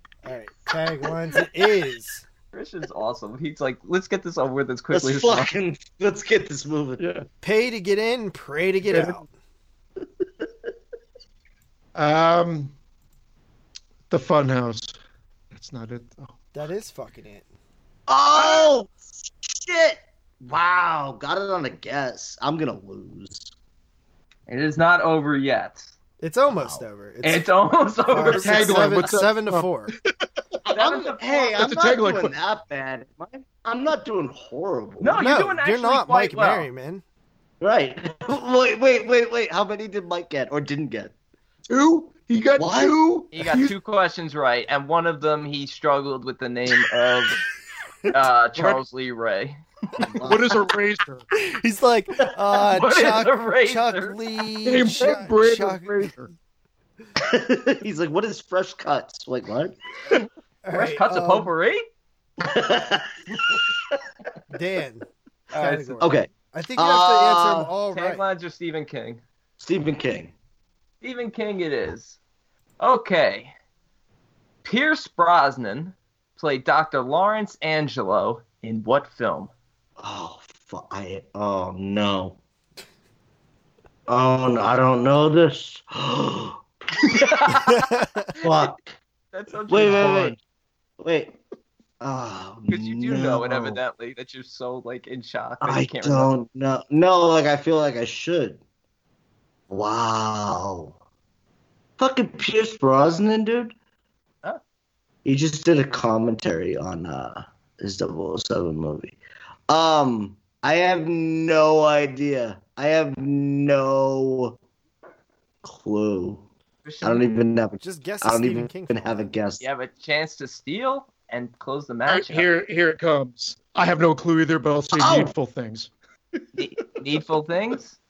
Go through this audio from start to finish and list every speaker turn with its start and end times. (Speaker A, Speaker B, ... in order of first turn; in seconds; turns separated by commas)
Speaker A: 0.2-2.2, Speaker B: 2.5-5.5, Speaker C: 4.9-7.0, Speaker D: 7.0-7.2, Speaker A: 7.4-9.2, Speaker D: 11.9-12.7, Speaker D: 14.1-15.0, Speaker D: 15.5-16.3, Speaker A: 16.5-17.4, Speaker C: 18.1-23.5, Speaker D: 18.4-18.7, Speaker B: 24.5-25.9, Speaker A: 26.2-27.4, Speaker C: 26.5-26.8, Speaker B: 27.2-29.1, Speaker A: 28.1-29.9, Speaker D: 28.3-29.9, Speaker C: 30.7-35.2, Speaker B: 30.7-31.6, Speaker D: 31.6-32.3, Speaker B: 35.0-36.7, Speaker A: 35.1-37.0, Speaker C: 37.6-41.1, Speaker D: 41.7-43.8, Speaker C: 42.6-42.9, Speaker B: 43.3-47.4, Speaker B: 48.1-50.0, Speaker D: 48.5-48.8, Speaker C: 50.0-50.4, Speaker D: 50.2-51.2, Speaker A: 51.4-56.1, Speaker B: 52.5-54.2, Speaker D: 54.6-56.3, Speaker C: 57.2-59.7, Speaker A: 60.6-61.5, Speaker B: 60.7-61.8, Speaker C: 62.4-63.9, Speaker A: 64.5-68.2, Speaker B: 65.5-66.0, Speaker C: 66.0-67.7, Speaker B: 67.9-69.2, Speaker C: 69.6-70.3, Speaker B: 71.0-72.2, Speaker B: 72.8-73.5, Speaker B: 74.6-79.5, Speaker C: 80.0-82.4, Speaker C: 84.1-87.6, Speaker B: 87.0-88.7, Speaker A: 87.7-88.3, Speaker C: 88.3-89.0, Speaker B: 89.3-90.3, Speaker C: 89.7-90.4, Speaker D: 89.8-90.3, Speaker C: 91.0-91.4, Speaker C: 92.0-93.8, Speaker B: 92.7-96.3, Speaker C: 95.6-98.6, Speaker C: 99.7-100.9, Speaker C: 102.0-103.7, Speaker C: 105.2-109.2, Speaker C: 109.7-114.6, Speaker C: 115.6-116.4, Speaker B: 116.8-117.3, Speaker C: 117.0-119.7, Speaker A: 117.8-119.2, Speaker B: 119.6-122.5, Speaker D: 122.1-125.9, Speaker C: 124.9-125.3, Speaker B: 126.5-128.0